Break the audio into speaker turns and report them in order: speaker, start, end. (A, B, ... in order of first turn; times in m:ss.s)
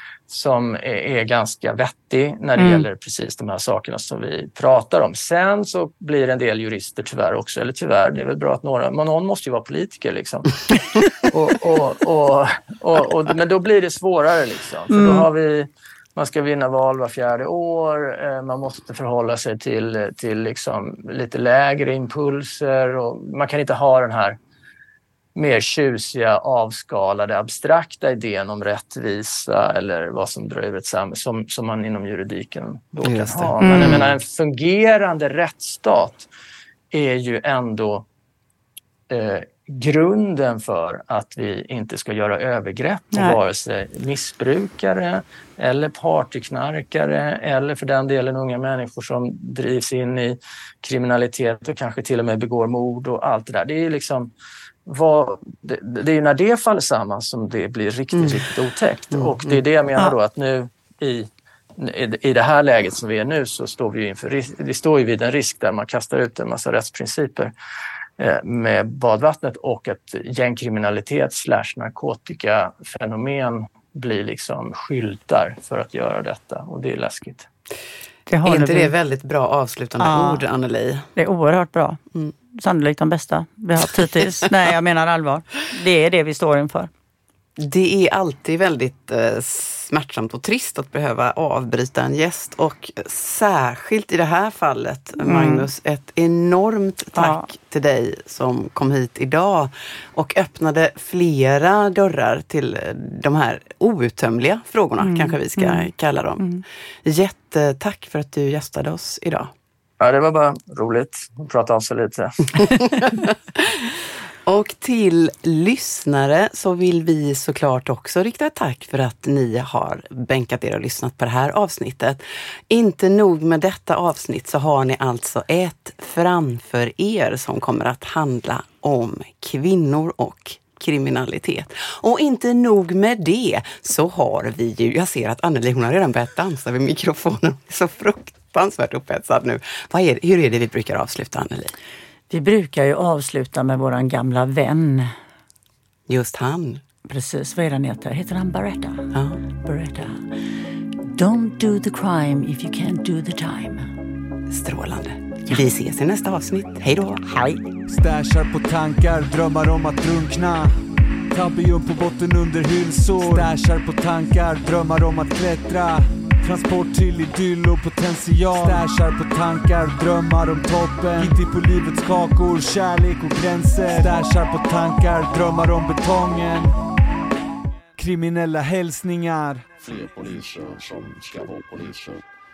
0:00.3-0:24.4 A
0:02.6-0:02.8 B
0:14.9-0:15.3 B
0:25.3-0:36.3 A
0:33.0-0:34.1 C
0:33.6-0:34.0 B
0:36.9-0:38.0 A
0:39.1-0:54.3 A
0:43.1-0:43.4 B
0:54.8-1:07.5 A
0:59.1-0:59.6 C
1:08.2-1:17.5 A
1:18.3-1:18.9 B
1:18.4-1:21.1 C
1:20.0-1:20.4 B
1:21.2-1:26.9 B
1:27.6-1:49.5 C
1:35.2-1:35.7 B
1:37.2-1:37.4 B
1:45.0-1:46.6 B
1:50.0-1:52.7 A
1:54.4-2:21.8 C
2:22.3-2:25.1 B
2:26.1-2:26.8 C
2:27.0-2:29.1 B
2:29.1-2:29.4 C
2:29.6-2:30.3 B
2:31.0-2:33.9 B
2:34.5-2:37.4 C
2:37.3-2:37.6 B
2:37.9-2:40.7 D
2:41.3-2:56.7 D
2:58.0-2:59.7 D
2:59.8-3:02.2 E